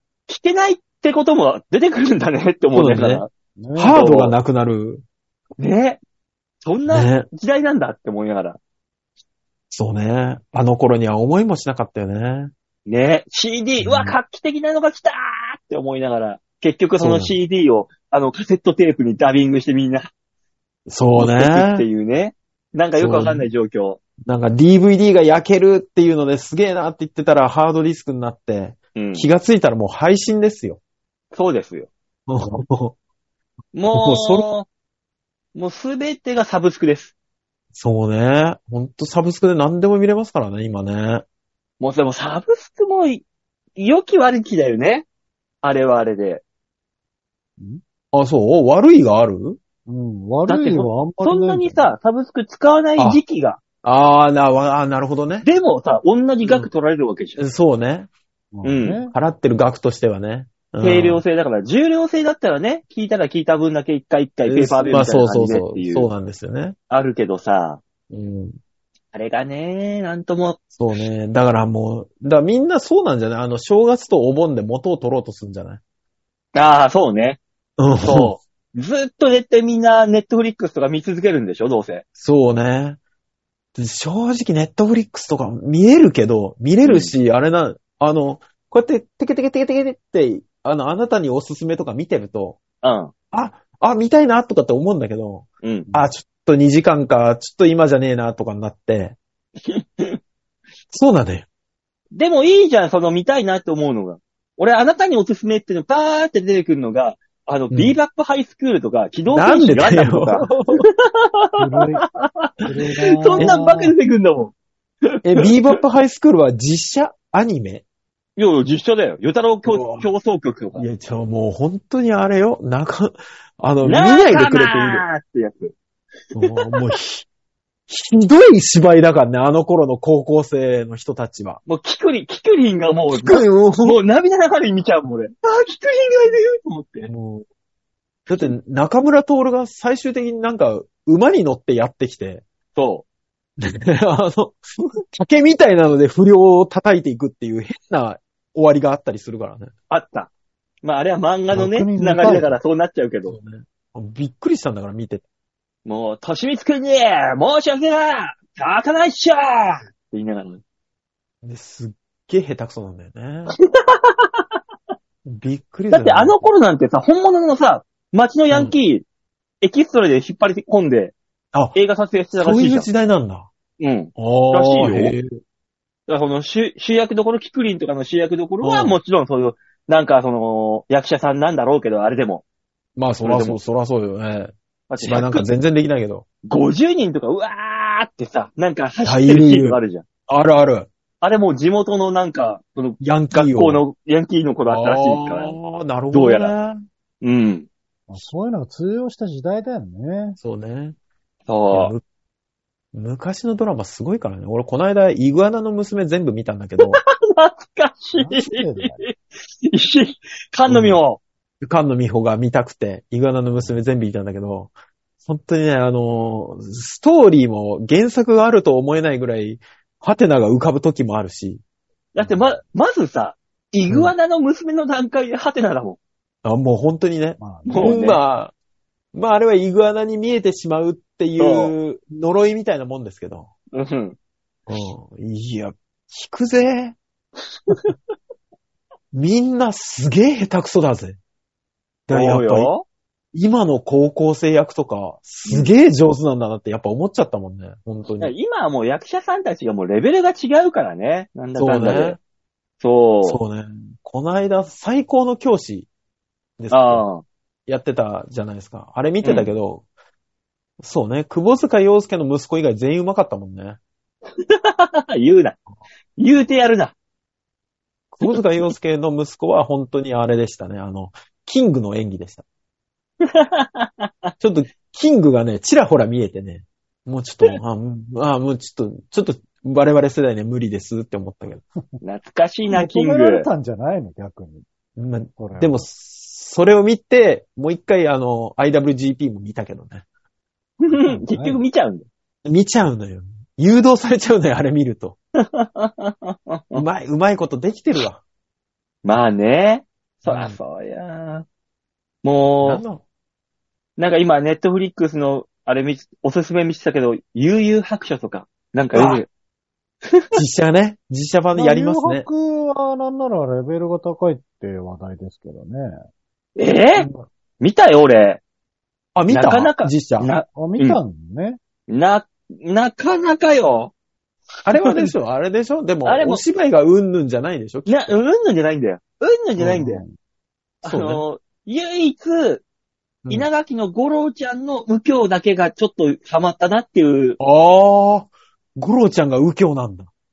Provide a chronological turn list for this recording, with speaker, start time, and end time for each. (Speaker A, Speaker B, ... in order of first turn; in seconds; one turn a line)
Speaker A: 0.3-3.3
Speaker B: 2.7-3.2
Speaker C: 3.6-4.0
Speaker B: 3.8-5.0
Speaker A: 3.9-4.3
Speaker A: 5.6-6.0
Speaker A: 6.6-8.6
Speaker B: 6.9-7.3
Speaker B: 9.7-12.5
Speaker A: 12.9-20.1
Speaker B: 13.8-14.2
Speaker B: 17.0-17.3
Speaker B: 20.9-21.9
Speaker A: 21.1-24.0
Speaker B: 23.0-23.4
Speaker B: 24.2-30.8
Speaker A: 28.9-29.3
Speaker A: 31.3-31.9
Speaker B: 32.3-33.0
Speaker A: 33.7-34.7
Speaker B: 33.9-34.5
Speaker A: 35.5-37.1
Speaker B: 37.7-41.2
Speaker A: 41.8-43.2
Speaker A: 43.8-45.0
Speaker A: 45.6-46.4
Speaker B: 48.1-49.6
Speaker C: 49.9-51.9
Speaker A: 50.5-53.6
Speaker B: 53.8-55.5
Speaker A: 55.4-57.4
Speaker B: 56.4-56.7
Speaker B: 57.4-58.1
Speaker C: 58.5-59.1
Speaker A: 58.6-59.0
Speaker B: 59.1-61.2
Speaker A: 60.8-66.1
Speaker B: 64.5-66.7
Speaker A: 66.9-67.8
Speaker B: 68.1-68.6
Speaker A: 69.1-70.6
Speaker B: 70.7-75.8
Speaker A: 76.5-77.4
Speaker B: 77.8-78.3
Speaker A: 78.0-82.0
Speaker B: 82.2-83.0
Speaker B: 83.7-92.6
Speaker A: 86.8-87.1
Speaker A: 92.8-93.1
Speaker B: 93.3-99.2
Speaker A: 95.6-95.9
Speaker A: 99.6-100.2
Speaker B: 100.9-101.5
Speaker A: 102.1-110.5
Speaker B: 107.7-108.0
Speaker B: 109.3-110.8
Speaker A: 111.0-114.5
Speaker C: 111.6-112.0
Speaker C: 112.6-113.9
Speaker B: 115.2-117.8
Speaker A: 118.4-120.9
Speaker B: 119.6-120.1
Speaker B: 120.7-125.0
Speaker A: 123.8-125.7
Speaker B: 126.3-127.3
Speaker B: 127.9-131.6
Speaker A: 131.7-137.1
Speaker B: 133.1-134.0
Speaker B: 137.1-137.4
Speaker B: 138.3-142.4
Speaker A: 142.8-143.0
Speaker B: 143.6-149.7
Speaker A: 149.9-150.3
Speaker A: 150.8-153.3
Speaker C: 151.5-152.6
Speaker B: 153.2-155.2
Speaker A: 155.8-160.6
Speaker B: 161.4-163.5
Speaker A: 163.7-164.3
Speaker B: 165.2-166.4
Speaker A: 165.9-169.0
Speaker A: 169.6-171.1
Speaker A: 171.7-172.9
Speaker B: 172.3-173.5
Speaker A: 173.8-175.2
Speaker B: 174.2-175.4
Speaker A: 176.1-182.4
Speaker B: 178.6-179.0
Speaker B: 183.0-186.2
Speaker A: 183.2-183.6
Speaker A: 184.9-185.4
Speaker A: 186.4-190.0
Speaker B: 189.0-190.9
Speaker A: 191.2-195.6
Speaker B: 193.0-193.8
Speaker B: 194.7-196.8
Speaker A: 196.1-196.5
Speaker A: 197.2-197.7
Speaker C: 198.1-200.4
Speaker B: 200.4-200.9
Speaker A: 201.5-201.9
Speaker B: 201.7-202.0
Speaker B: 202.9-207.0
Speaker A: 206.8-211.2
Speaker C: 208.2-209.0
Speaker B: 210.7-211.0
Speaker B: 211.6-221.6
Speaker A: 222.1-226.0
Speaker B: 226.4-228.5
Speaker C: 227.4-228.1
Speaker A: 227.7-228.2
Speaker B: 229.1-233.5
Speaker A: 231.4-231.7
Speaker A: 233.7-234.2
Speaker B: 234.7-237.0
Speaker B: 239.1-241.2
Speaker B: 242.1-242.7
Speaker A: 242.1-242.8
Speaker B: 243.3-248.3
Speaker A: 248.2-252.2
Speaker B: 251.6-252.2
Speaker A: 252.8-253.4
Speaker B: 253.2-255.9
Speaker B: 256.6-257.0
Speaker A: 256.7-257.2
Speaker B: 257.7-259.8
Speaker A: 259.2-259.5
Speaker B: 260.8-263.8
Speaker A: 264.4-265.6
Speaker A: 266.2-266.9
Speaker B: 268.1-272.4
Speaker A: 273.2-274.3
Speaker B: 274.4-281.6
Speaker A: 282.0-283.5
Speaker C: 282.7-284.6
Speaker B: 285.0-290.0
Speaker C: 285.4-285.8
Speaker A: 290.8-292.1
Speaker C: 291.0-291.6
Speaker B: 292.4-295.1
Speaker A: 295.5-296.8
Speaker B: 296.7-298.2
Speaker A: 299.0-301.4
Speaker B: 300.2-300.6
Speaker A: 302.2-302.8
Speaker B: 302.6-303.0
Speaker A: 304.0-309.3
Speaker B: 308.9-309.2
Speaker B: 310.3-312.3
Speaker C: 311.5-315.9
Speaker A: 316.6-317.1
Speaker B: 317.0-317.2
Speaker A: 317.6-318.4
Speaker B: 319.1-320.3
Speaker A: 319.3-321.0
Speaker C: 320.5-321.6
Speaker A: 321.9-323.9
Speaker B: 324.6-328.1
Speaker A: 324.7-325.1
Speaker A: 326.0-326.4
Speaker A: 327.9-330.0
Speaker C: 329.6-330.1
Speaker B: 330.8-331.2
Speaker A: 330.8-332.6
Speaker A: 333.3-337.4
Speaker B: 337.4-340.1